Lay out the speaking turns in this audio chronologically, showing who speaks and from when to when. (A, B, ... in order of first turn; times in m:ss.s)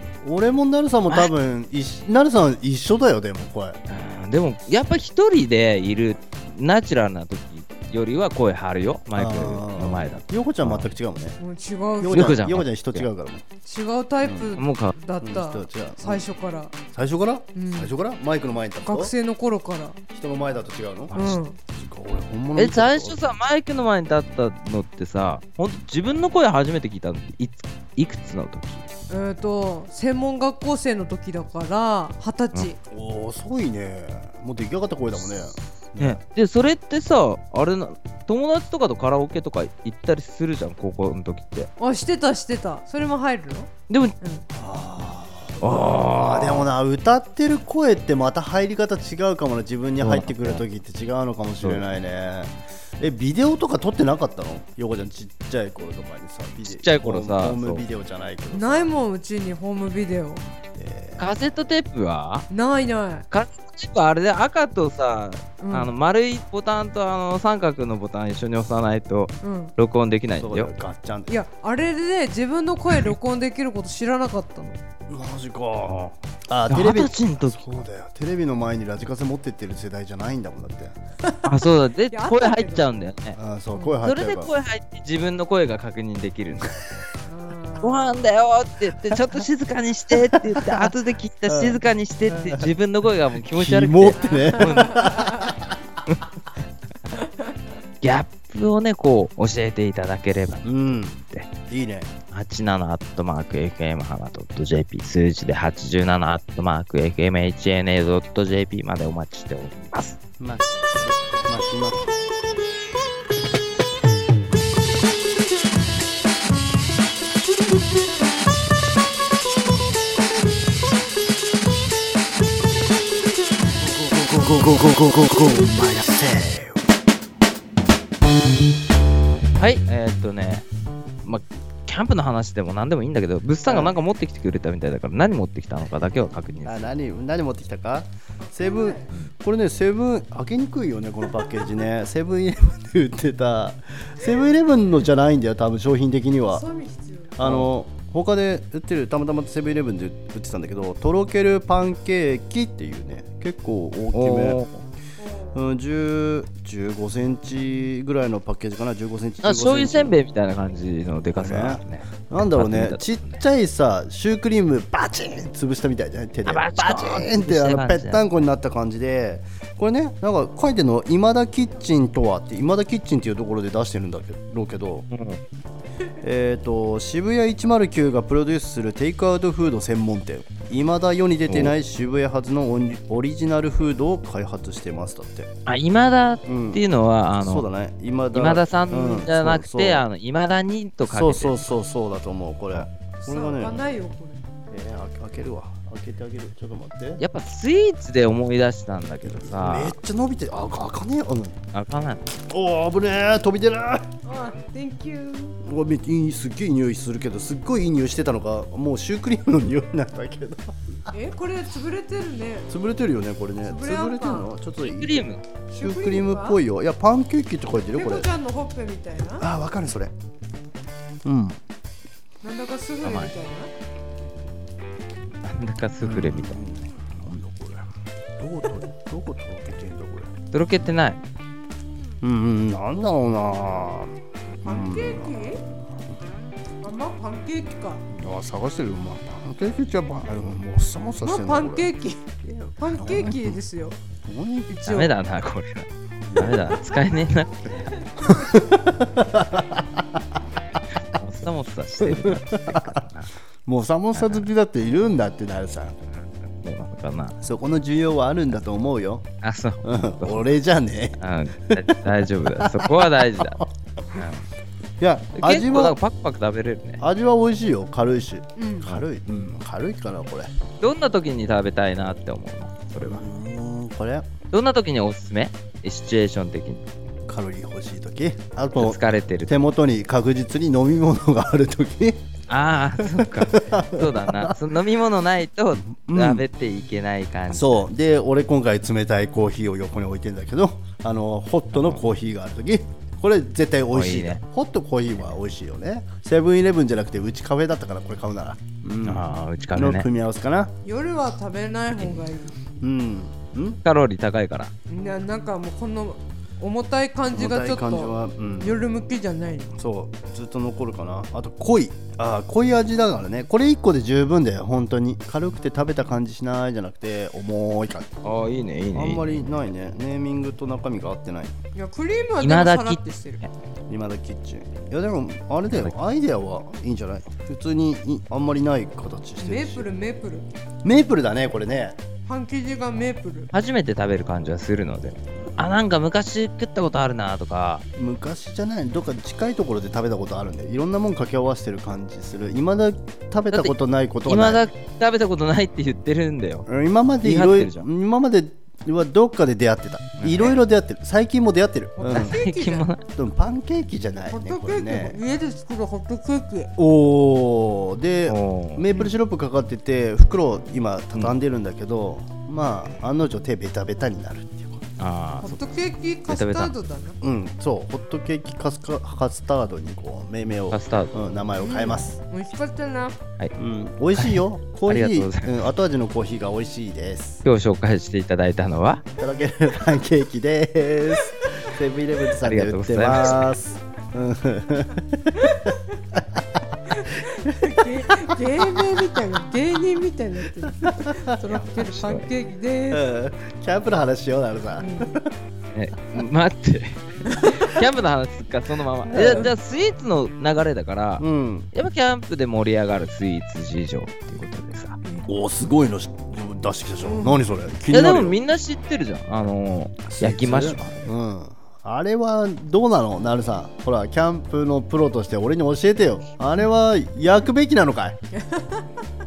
0:00.2-0:03.8 A
0:03.9-0:10.9 B
0:09.1-0:11.4 A
0:11.4-0:12.4 C
0:12.0-0:13.4 A
0:12.1-0:13.1 B
0:13.6-0:16.7 C
0:14.2-0:14.5 A
0:14.6-0:14.9 B
0:15.2-0:16.3 A
0:16.9-0:19.1 A
0:17.5-0:17.9 C
0:18.8-0:20.0 C
0:20.1-0:23.2 A
0:21.1-0:21.4 B
0:21.1-0:21.6 C
0:22.6-0:28.9 B
0:29.1-0:32.8 C
0:32.9-0:36.2 A
0:36.0-0:41.7 B
0:41.8-0:44.4 C
0:43.9-0:44.1 B
0:44.5-0:58.9 A
0:45.6-0:46.7 B
0:50.0-0:50.6 B
0:51.6-0:51.8 B
0:56.6-0:57.8 B
0:58.5-1:00.4 C
1:00.7-1:01.2 A
1:01.2-1:02.5 B
1:02.5-1:03.2 C
1:03.3-1:10.7 B
1:05.6-1:05.9 C
1:09.4-1:09.7 C
1:10.4-1:11.3 A
1:11.3-1:14.8 C
1:15.1-1:21.0 A
1:16.7-1:17.8 B
1:21.4-1:23.4 B
1:22.1-1:22.9 C
1:23.4-1:24.5 A
1:24.0-1:26.8 B
1:27.3-1:28.3 C
1:27.8-1:35.3 B
1:30.1-1:30.9 A
1:31.5-1:32.7 A
1:33.5-1:35.7 A
1:34.1-1:35.5 C
1:38.0-1:40.7 B
1:40.6-1:42.1 A
1:42.3-1:50.2 B
1:50.4-1:52.1 A
2:03.8-2:06.8 A
2:09.6-2:10.6 B
2:11.2-2:16.9 B
2:13.7-2:14.0 A
2:16.6-2:26.6 A
2:18.5-2:19.1 C
2:26.5-2:27.3 C
2:27.4-2:34.6 A
2:27.4-2:27.7 B
2:34.1-2:34.8 B
2:35.2-2:35.6 C
2:35.5-2:40.1 A
2:39.4-2:43.4 B
2:41.4-2:55.0 A
2:46.4-2:48.2 B
2:55.1-2:55.4 B
2:56.2-3:05.5 A
3:01.5-3:01.7 B
3:05.6-3:07.6 B
3:06.4-3:06.8 A
3:07.4-3:10.0 A
3:08.3-3:11.7 B
3:11.1-3:13.8 A
3:13.2-3:14.4 C
3:14.7-3:17.2 A
3:17.2-3:19.9 B
3:19.3-3:21.6 A
3:21.7-3:22.3 B
3:22.4-3:24.1 A
3:24.2-3:25.6 C
3:25.6-3:30.7 A
3:31.1-3:32.7 C
3:32.7-3:35.3 A
3:33.6-3:34.5 C
3:34.8-3:35.4 B
3:35.7-3:36.6 C
3:35.8-3:38.3 A
3:37.9-3:39.4 C
3:39.3-3:40.1 A
3:41.2-3:41.6 A
3:42.4-3:43.7 C
3:43.0-3:43.3 B
3:45.4-3:46.6 B
3:46.0-3:47.9 A
3:48.4-3:50.3 A
3:50.5-3:51.2 B
3:52.2-3:56.2 A
3:54.6-3:55.6 C
3:56.8-3:58.0 C
3:58.1-4:01.9 A
4:01.2-4:04.0 C
4:02.5-4:03.6 A
4:04.2-4:04.7 A
4:04.7-4:05.1 C
4:04.8-4:08.0 B
4:06.2-4:06.7 A
4:08.2-4:10.4 A
4:10.9-4:13.3 B
4:12.0-4:13.0 A
4:13.6-4:16.0 A
4:14.1-4:14.5 B
4:16.1-4:17.3 B
4:17.4-4:19.3 A
4:19.4-4:20.5 B
4:19.8-4:24.3 A
4:21.2-4:23.6 B
4:24.1-4:24.4 B
4:25.0-4:26.0 A
4:25.4-4:27.0 B
4:27.0-4:30.5 A
4:28.6-4:29.0 C
4:30.8-4:33.2 B
4:33.0-4:34.3 A
4:34.5-4:36.8 B
4:37.3-4:42.2 A
4:38.8-4:39.6 B
4:42.5-4:47.9 B
4:43.0-4:44.5 A
4:45.9-4:46.4 A
4:47.5-5:00.7 A
4:51.7-4:52.0 B
4:53.9-4:54.4 B
4:59.0-5:00.1 B
5:00.8-5:02.6 C
5:02.0-5:02.2 B
5:02.8-5:03.8 A
5:03.8-5:04.7 B
5:04.9-5:09.7 C
5:07.3-5:08.8 A
5:09.8-5:18.2 A
5:18.2-5:19.4 B
5:18.9-5:21.5 A
5:21.7-5:23.4 C
5:22.4-5:23.5 B
5:23.9-5:29.9 A
5:29.4-5:30.5 C
5:30.8-5:32.0 A
5:32.2-5:33.5 C
5:33.5-5:37.8 B
5:38.0-5:44.6 A
5:44.2-5:46.6 B
5:46.7-5:52.4 A
5:47.2-5:47.8 B
5:50.2-5:50.6 B
5:52.0-5:52.8 C
5:52.1-5:53.0 B
5:53.2-5:55.2 A
5:54.3-5:56.7 C
5:56.8-6:04.8 A
5:58.3-5:58.9 B
6:05.0-6:05.6 B
6:05.4-6:07.2 C
6:06.3-6:06.7 B
6:07.2-6:12.2 A
6:10.7-6:11.2 B
6:11.6-6:13.2 C
6:13.6-6:17.4 A
6:14.2-6:15.6 B
6:17.4-6:19.0 B
6:19.2-6:29.0 A
6:22.4-6:23.5 B
6:26.9-6:33.0 C
6:30.6-6:31.6 A
6:31.9-6:32.3 B
6:32.9-6:35.3 A
6:34.8-6:35.2 C
6:35.7-6:45.0 B
6:37.3-6:37.7 C
6:39.0-6:39.5 A
6:39.1-6:39.5 C
6:41.2-6:41.7 A
6:45.2-6:48.4 A
6:47.0-6:47.4 C
6:47.9-6:51.1 B
6:50.0-6:58.2 A
6:58.3-6:58.8 C